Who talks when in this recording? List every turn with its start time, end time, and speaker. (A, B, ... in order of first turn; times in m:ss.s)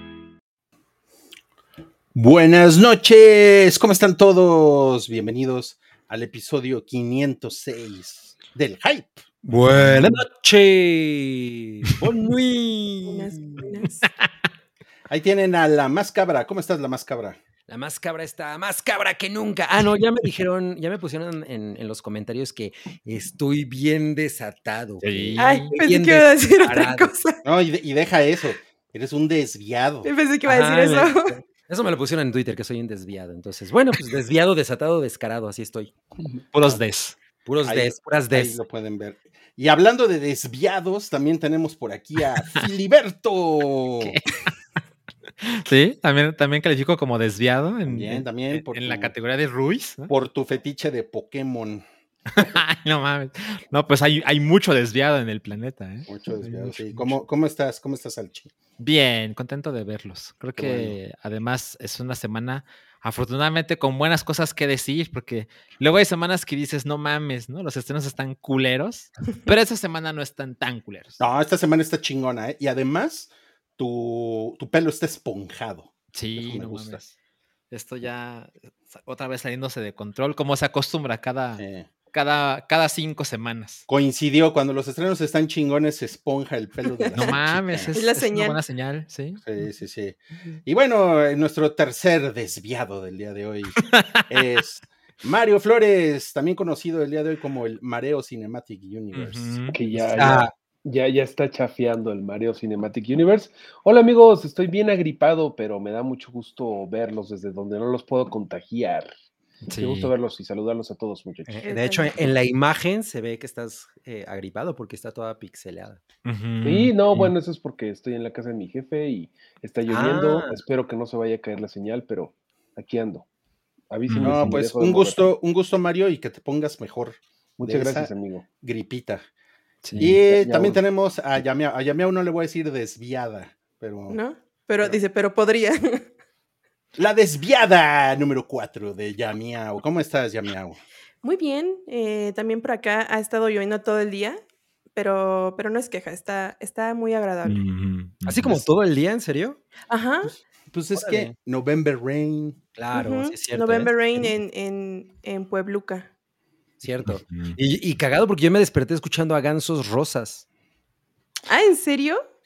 0:02.1-0:09.2 A
0:09.4-0:10.2 B
0:09.8-0:13.6 C
0:13.0-0:14.0 D
0:15.1-0:17.4 A
0:17.7-0:27.1 C
0:25.0-0:25.7 B
0:25.4-0:27.4 D
0:27.4-0:30.1 A
0:30.0-0:31.3 D
0:30.4-0:35.9 C
0:36.5-0:37.2 B
0:37.4-0:38.6 C
0:37.6-0:44.2 A
0:44.0-0:44.4 B
0:45.4-0:50.1 B
0:47.8-0:49.1 A
0:50.1-0:51.8 A
0:52.3-0:57.2 B
0:56.1-0:58.5 A
0:58.8-1:11.2 B
1:00.6-1:01.0 A
1:11.2-1:17.0 A
1:16.1-1:17.1 B
1:17.7-1:23.8 B
1:21.6-1:21.9 A
1:23.9-1:28.0 A
1:26.9-1:27.2 D
1:27.2-1:29.4 B
1:27.9-1:28.6 D
1:29.4-1:33.8 A
1:33.8-1:34.2 B
1:34.3-1:39.6 A
1:39.1-1:39.9 B
1:39.7-1:49.1 E
1:40.2-1:40.5 C
1:49.7-1:50.1 B
1:49.8-1:51.6 E
1:51.5-1:56.0 C
1:51.6-1:52.2 D
1:56.2-1:57.3 B
1:56.6-2:03.2 E
1:59.9-2:00.6 C
2:03.9-2:05.3 E
2:04.1-2:04.3 B
2:04.2-2:09.2 A
2:07.6-2:08.4 E
2:09.8-2:10.1 B
2:10.0-2:14.2 A
2:10.2-2:10.8 E
2:14.1-2:16.1 D
2:17.0-2:20.8 A
2:21.2-2:24.4 D
2:24.9-2:27.6 D
2:27.4-2:28.7 B
2:28.2-2:29.6 C
2:29.9-2:30.3 D
2:30.2-2:32.6 A
2:30.9-2:31.3 C
2:32.8-2:34.4 C
2:32.9-2:36.1 D
2:36.8-2:40.4 C
2:37.1-2:37.6 B
2:41.5-2:42.2 D